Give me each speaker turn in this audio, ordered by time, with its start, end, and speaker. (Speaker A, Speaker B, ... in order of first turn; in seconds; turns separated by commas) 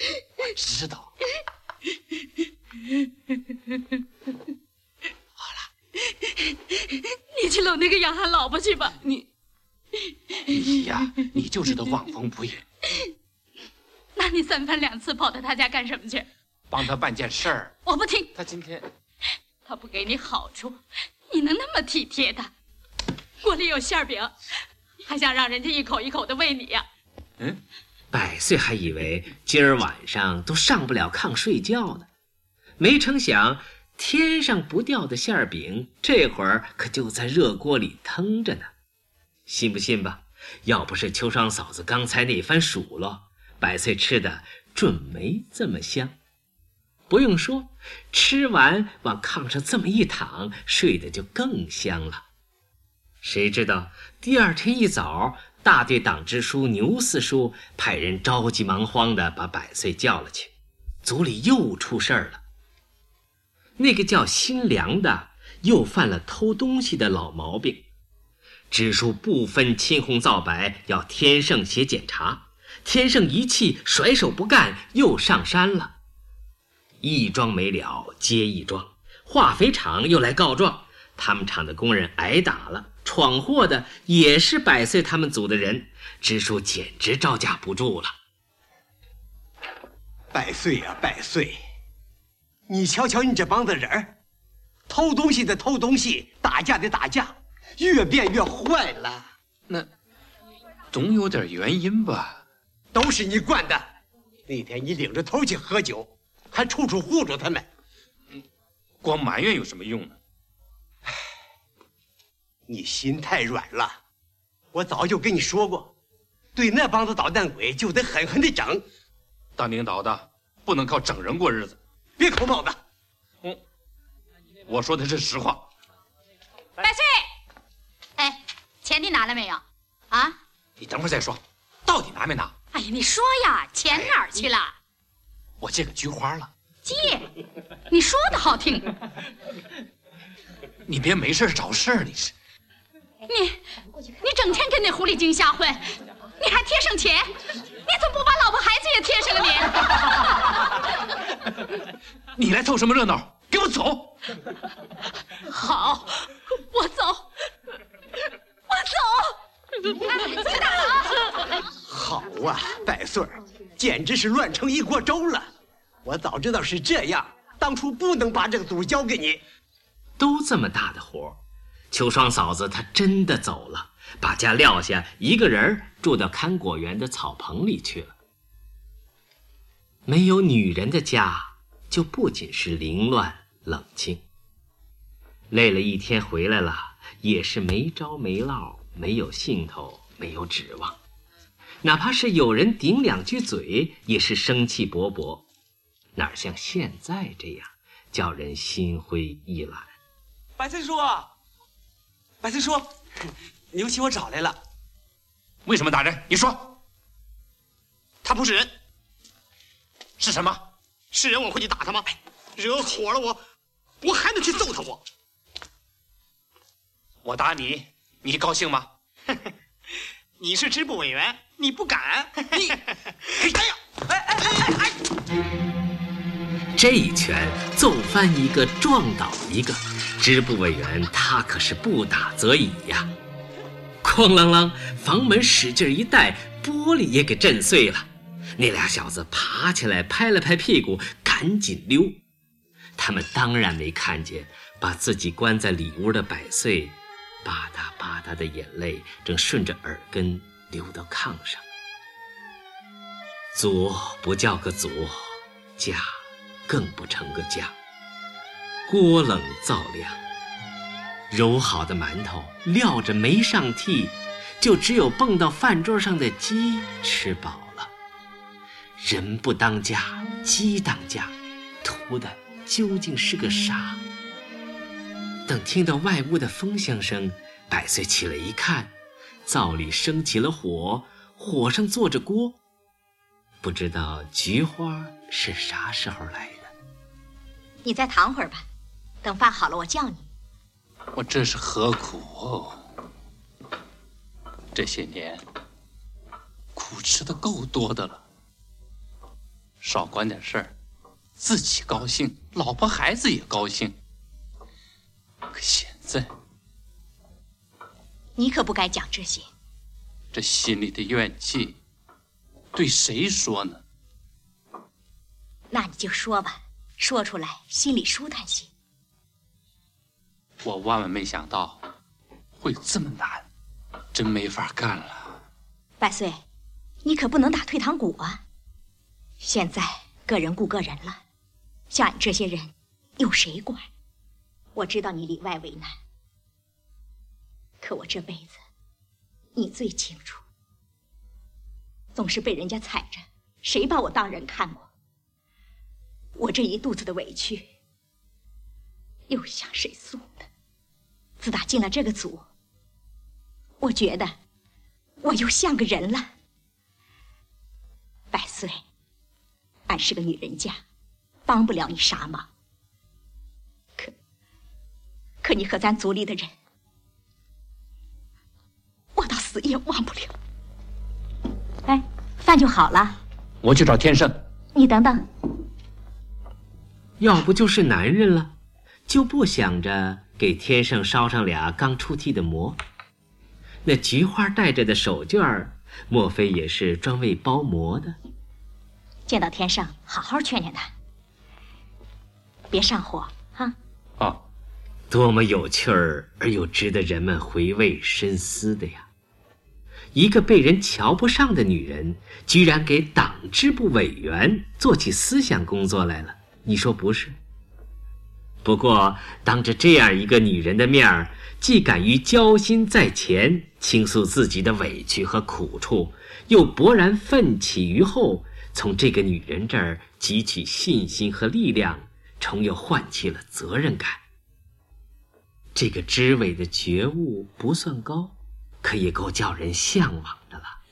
Speaker A: 0.4-1.1, Speaker B: 6.1-9.0, Speaker A: 10.5-12.6, Speaker B: 14.2-16.3, Speaker A: 16.7-17.7, Speaker B: 17.9-18.3, Speaker A: 18.3-18.9, Speaker B: 19.6-22.5, Speaker B: 23.4-24.3, Speaker B: 25.1-26.9, Speaker C: 28.1-32.1, Speaker C: 32.8-38.7, Speaker C: 39.5-46.1, Speaker C: 47.1-52.2, Speaker C: 53.2-60.5, Speaker C: 61.0-62.4, Speaker C: 63.8-67.8, Speaker C: 68.7-75.9, Speaker C: 77.0-88.1, Speaker D: 90.3-91.6, Speaker D: 92.7-94.1, Speaker D: 94.9-99.3, Speaker A: 100.9-102.4, Speaker D: 102.9-103.8, Speaker D: 104.5-107.7, Speaker A: 109.0-110.2, Speaker D: 112.7-114.0, Speaker D: 114.7-115.9, Speaker D: 116.5-118.8, Speaker A: 119.6-121.8, Speaker D: 122.2-122.8, Speaker A: 124.7-125.7, Speaker B: 126.8-127.3, Speaker B: 128.2-130.3, Speaker A: 130.8-132.5, Speaker B: 132.7-134.7, Speaker A: 133.9-134.2, Speaker A: 135.6-136.5, Speaker B: 136.8-137.3, Speaker B: 137.9-138.9, Speaker A: 140.9-142.3, Speaker B: 143.3-143.7, Speaker B: 144.2-150.8, Speaker A: 152.3-154.1, Speaker B: 155.4-157.3, Speaker B: 158.7-159.3, Speaker B: 159.9-161.4, Speaker D: 161.8-165.5, Speaker D: 166.0-169.4, Speaker C: 170.2-171.4, Speaker C: 171.9-178.2, Speaker C: 180.1-184.2, Speaker C: 185.5-191.0, Speaker C: 191.8-195.4, Speaker C: 196.2-199.9, Speaker E: 200.6-201.3, Speaker E: 202.4-202.9, Speaker E: 203.7-204.6, Speaker A: 205.7-206.8, Speaker F: 208.2-208.7, Speaker A: 210.2-210.6, Speaker F: 211.1-213.4, Speaker F: 214.0-215.0, Speaker A: 217.2-218.9, Speaker F: 220.4-222.7, Speaker C: 226.7-233.1, Speaker C: 234.0-242.2, Speaker C: 243.0-251.6, Speaker C: 253.5-257.7, Speaker C: 258.9-260.2, Speaker C: 261.3-267.9, Speaker C: 269.0-274.0, Speaker C: 275.5-278.9, Speaker C: 279.4-282.6, Speaker C: 283.6-286.7, Speaker G: 287.8-288.6, Speaker G: 289.2-290.2, Speaker A: 291.1-292.8, Speaker A: 294.7-295.4, Speaker A: 296.8-298.2, Speaker A: 299.8-300.7, Speaker A: 301.4-303.9, Speaker A: 305.5-306.3, Speaker G: 308.4-309.5, Speaker A: 310.3-311.8, Speaker A: 312.7-313.8, Speaker G: 315.7-318.7, Speaker A: 320.6-321.8, Speaker A: 322.6-323.4, Speaker A: 324.1-325.4, Speaker G: 326.0-326.4, Speaker G: 327.0-328.4, Speaker G: 329.4-331.2, Speaker G: 331.9-333.9, Speaker G: 334.7-335.9, Speaker G: 337.8-338.6, Speaker G: 339.5-340.4, Speaker G: 342.1-344.9, Speaker G: 346.4-347.7, Speaker G: 349.3-350.5, Speaker G: 351.4-352.4, Speaker G: 353.8-354.3, Speaker G: 355.2-356.3, Speaker G: 358.3-358.8, Speaker G: 359.9-360.8, Speaker G: 361.4-362.5, Speaker G: 365.4-366.5, Speaker G: 369.1-370.3, Speaker G: 371.9-373.2, Speaker A: 373.6-374.3, Speaker G: 374.7-375.2, Speaker C: 377.2-378.5, Speaker C: 379.1-382.8, Speaker C: 383.8-388.2, Speaker G: 389.3-390.9, Speaker G: 392.7-393.7, Speaker C: 395.1-399.1, Speaker C: 400.1-407.4, Speaker C: 408.6-424.2, Speaker C: 425.7-430.8